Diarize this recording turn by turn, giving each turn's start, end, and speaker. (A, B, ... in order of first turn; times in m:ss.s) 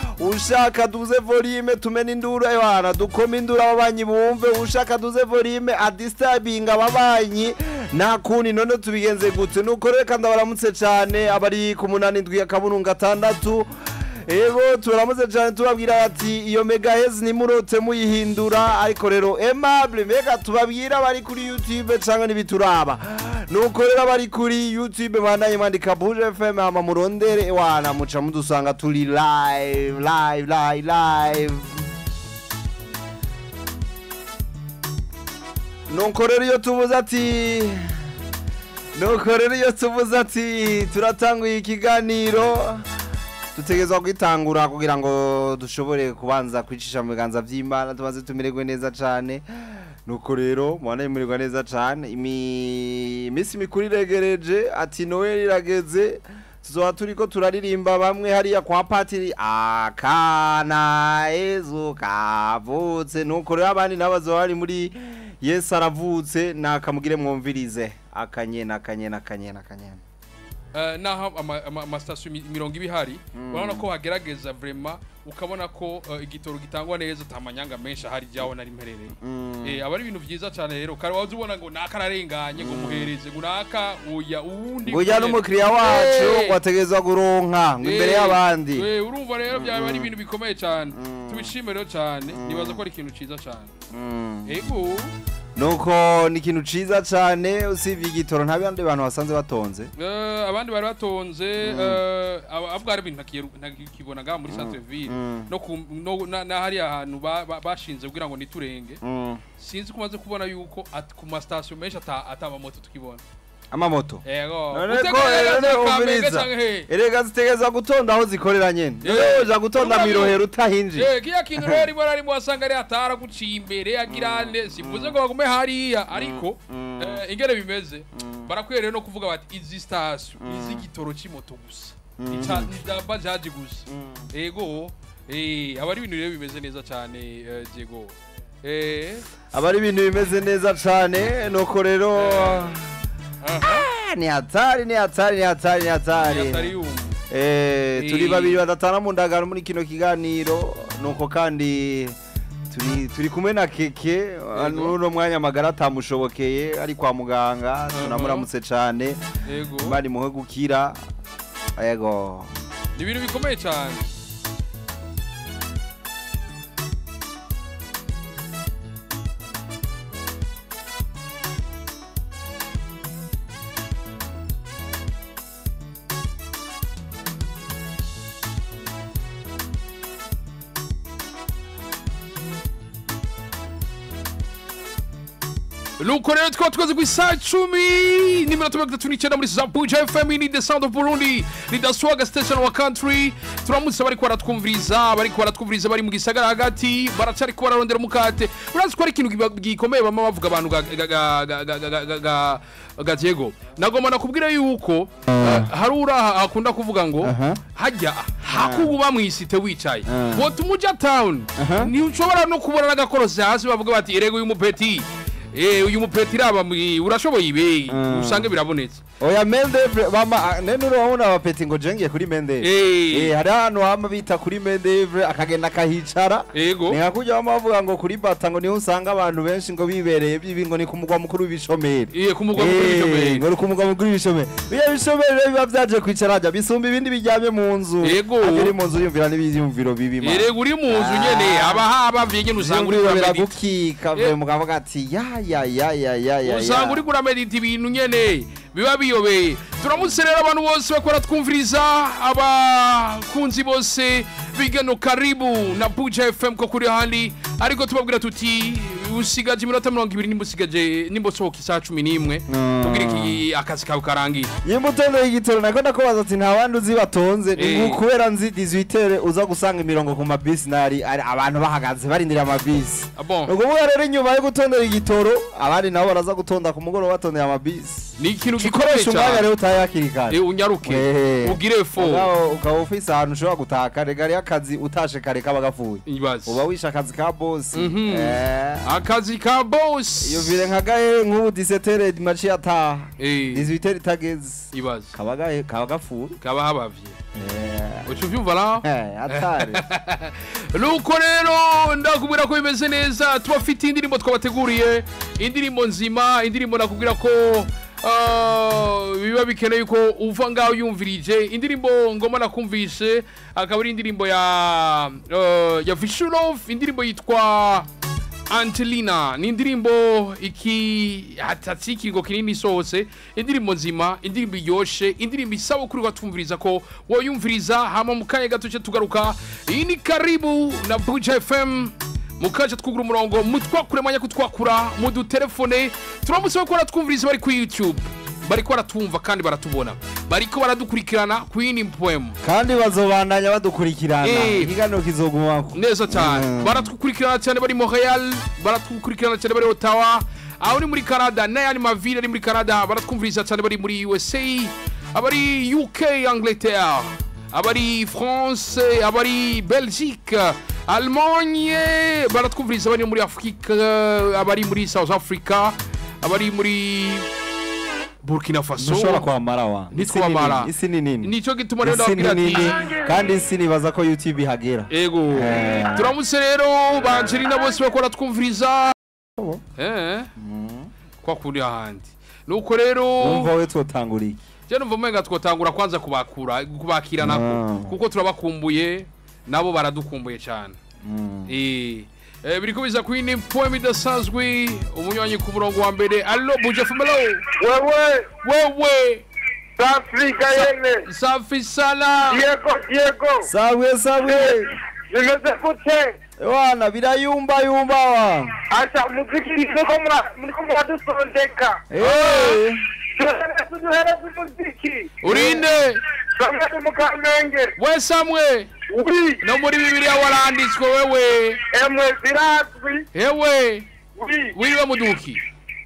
0:00.2-0:13.7 A
0:14.3-0:31.8 A
0:35.9-0:37.9 A
0:39.0-0:42.8 A
0:43.6-0:49.4 A
0:50.1-1:10.0 A
1:10.7-1:26.6 B
1:13.3-1:13.9 A
1:19.2-1:19.8 A
1:22.6-1:23.1 A
1:24.9-1:28.9 A
1:27.8-1:33.7 B
1:29.5-1:30.1 A
1:30.9-1:31.5 A
1:32.3-1:32.8 A
1:33.9-1:34.6 A
1:34.5-1:35.1 B
1:35.6-1:39.9 A
1:40.0-1:49.0 B
1:41.6-1:42.0 A
1:44.5-1:45.5 A
1:49.0-1:49.4 A
1:49.6-1:53.2 B
1:53.7-2:01.1 A
1:54.2-1:56.9 B
1:59.0-2:00.4 B
2:01.0-2:19.3 B
2:04.1-2:05.2 A
2:06.1-2:07.2 A
2:08.2-2:08.5 A
2:10.4-2:10.8 A
2:12.2-2:12.7 A
2:13.9-2:14.3 A
2:19.5-2:22.9 A
2:22.1-2:22.7 B
2:23.4-2:23.9 B
2:23.6-2:26.7 A
2:26.2-2:27.2 B
2:27.3-2:32.2 A
2:28.0-2:28.6 B
2:32.7-2:39.2 A
2:34.5-2:35.0 B
2:37.9-2:38.5 B
2:39.4-2:40.0 B
2:39.8-2:41.0 A
2:41.8-2:42.5 A
2:43.0-2:44.1 B
3:06.0-3:39.0 B
3:25.3-3:25.7 A
3:27.2-3:27.6 A
3:28.4-3:28.9 A
3:30.1-3:30.5 A
3:31.6-3:31.9 A
3:37.9-3:38.5 A
3:39.2-4:01.8 A
3:42.6-3:43.3 B
3:46.5-3:47.0 B
3:52.1-3:53.5 B
3:58.0-3:58.8 B
4:00.2-4:03.6 B
4:02.6-4:07.0 A
4:06.4-4:24.5 B
4:22.5-4:23.4 A
4:24.6-4:48.9 A
4:27.6-4:28.0 B
4:33.2-4:33.5 B
4:38.2-4:39.5 B
4:40.3-4:42.3 B
4:46.1-4:46.6 B
4:47.7-4:50.7 B
4:50.2-4:56.4 A
4:53.2-4:53.7 B
4:54.7-4:55.1 B
4:56.4-4:57.2 B
4:57.4-4:58.1 A
4:58.1-5:17.9 B
4:58.8-4:59.8 A
5:18.5-5:42.4 B
5:42.4-5:46.9 A
5:44.2-5:44.7 B
5:45.7-6:07.3 B
6:08.2-6:09.2 B
6:08.8-6:16.1 A
6:09.9-6:12.9 B
6:14.9-6:19.0 B
6:19.4-6:19.6 A
6:19.8-6:20.3 B
6:20.4-6:20.9 A
6:21.2-6:23.5 B
6:23.2-6:24.4 A
6:24.7-6:30.8 B
6:27.2-6:27.9 A
6:31.0-6:31.5 A
6:31.5-6:37.4 B
6:37.6-6:38.3 C
6:38.4-6:39.2 B
6:39.8-6:41.0 C
6:40.5-6:42.4 B
6:42.3-6:43.5 C
6:43.4-6:44.7 A
6:45.1-6:46.2 C
6:46.4-6:48.5 A
6:48.7-6:51.8 C
6:51.9-6:52.8 A
6:52.0-6:52.6 B
6:53.2-6:55.6 C
6:55.2-6:56.0 B
6:55.3-6:55.6 A
6:56.4-6:57.8 C
6:57.8-6:58.7 B
6:58.9-6:59.4 C
6:59.4-7:01.6 B
7:01.7-7:03.1 C
7:03.1-7:03.9 B
7:04.2-7:04.6 C
7:04.5-7:05.4 B